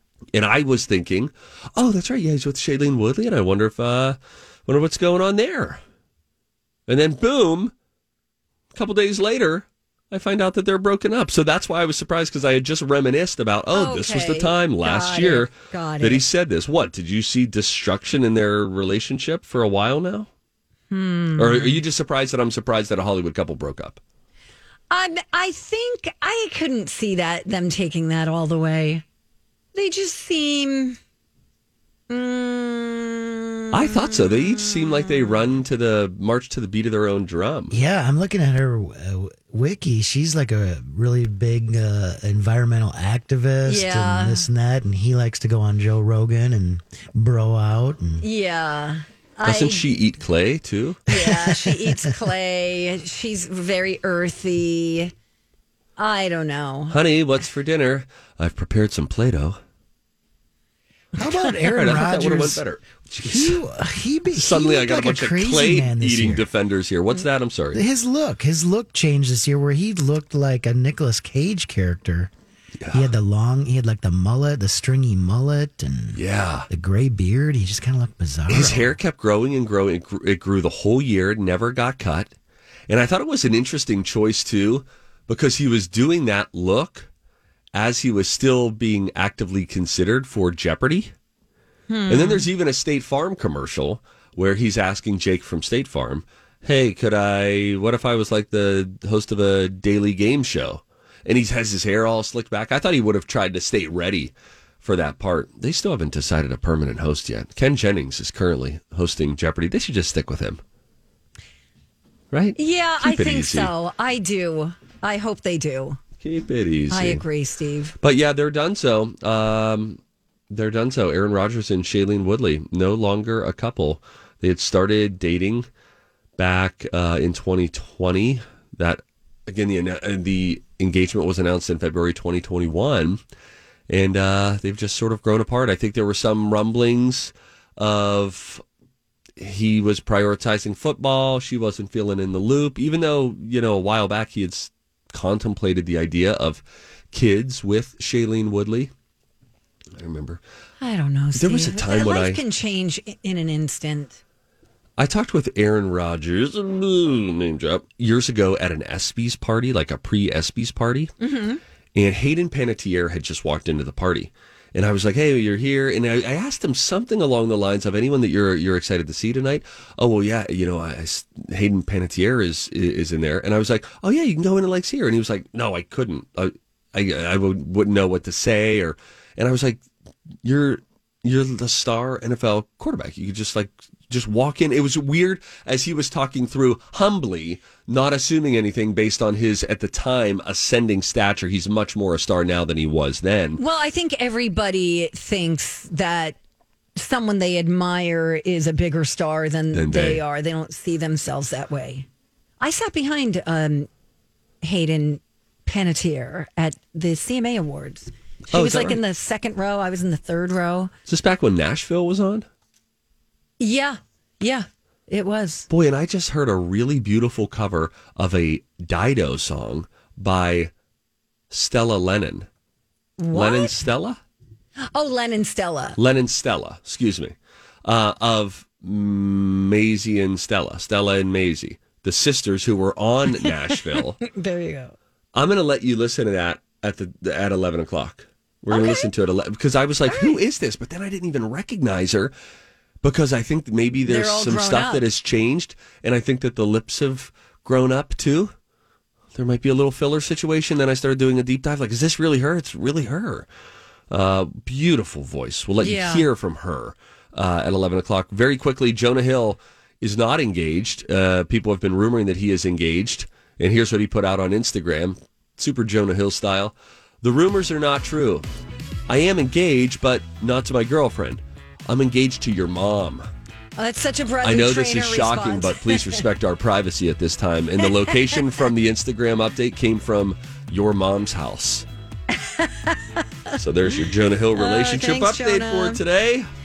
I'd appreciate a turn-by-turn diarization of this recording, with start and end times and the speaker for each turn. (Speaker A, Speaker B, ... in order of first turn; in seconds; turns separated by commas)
Speaker A: 0.3-5.8, Speaker A: 6.9-7.7, Speaker A: 8.7-20.3, Speaker B: 13.7-16.2, Speaker B: 20.9-21.8, Speaker A: 21.4-24.0, Speaker B: 24.9-29.0, Speaker B: 29.7-31.0, Speaker B: 32.1-34.9, Speaker A: 33.7-37.8, Speaker C: 37.7-48.2, Speaker B: 43.7-44.5, Speaker B: 48.2-49.9, Speaker A: 49.4-51.0, Speaker B: 51.1-55.1, Speaker C: 51.1-52.1, Speaker B: 56.0-57.0, Speaker A: 56.9-59.6, Speaker C: 61.2-62.6, Speaker A: 61.6-63.6, Speaker C: 63.2-66.5, Speaker A: 64.3-67.8, Speaker C: 67.7-72.3, Speaker A: 72.8-73.1, Speaker C: 72.9-79.0, Speaker A: 76.2-76.7, Speaker A: 78.5-82.3, Speaker A: 82.9-87.1, Speaker A: 87.7-91.1, Speaker B: 91.9-92.5, Speaker A: 92.1-110.6, Speaker A: 112.3-113.7, Speaker B: 112.6-116.0, Speaker A: 116.2-117.2, Speaker B: 116.9-118.0, Speaker A: 118.0-120.0, Speaker A: 120.5-125.7, Speaker A: 126.4-133.2, Speaker A: 133.9-138.6, Speaker A: 139.4-148.9, Speaker A: 150.0-150.4, Speaker B: 150.8-154.2, Speaker A: 151.4-152.4, Speaker A: 155.0-161.1, Speaker B: 161.2-161.6, Speaker A: 161.9-179.8, Speaker A: 180.4-193.6, Speaker B: 193.6-196.4, Speaker B: 197.0-202.1, Speaker A: 199.7-200.2, Speaker B: 202.6-203.9, Speaker B: 204.6-210.9, Speaker A: 208.5-209.0, Speaker A: 211.1-212.5, Speaker B: 213.6-215.7, Speaker A: 215.7-220.7, Speaker A: 221.5-222.5, Speaker B: 223.2-223.8, Speaker A: 223.3-224.2, Speaker B: 224.9-226.0, Speaker A: 226.0-227.3, Speaker A: 227.8-234.2, Speaker B: 234.2-234.9, Speaker A: 235.3-242.3, Speaker B: 238.7-239.1, Speaker B: 240.1-240.4, Speaker A: 243.0-248.5, Speaker B: 244.1-245.1, Speaker A: 249.3-253.5, Speaker A: 254.1-268.4, Speaker B: 255.8-256.3, Speaker A: 269.1-273.3, Speaker B: 273.8-276.2, Speaker A: 274.4-281.9, Speaker B: 277.8-278.6, Speaker B: 282.3-283.6, Speaker A: 283.5-286.5, Speaker B: 284.6-286.0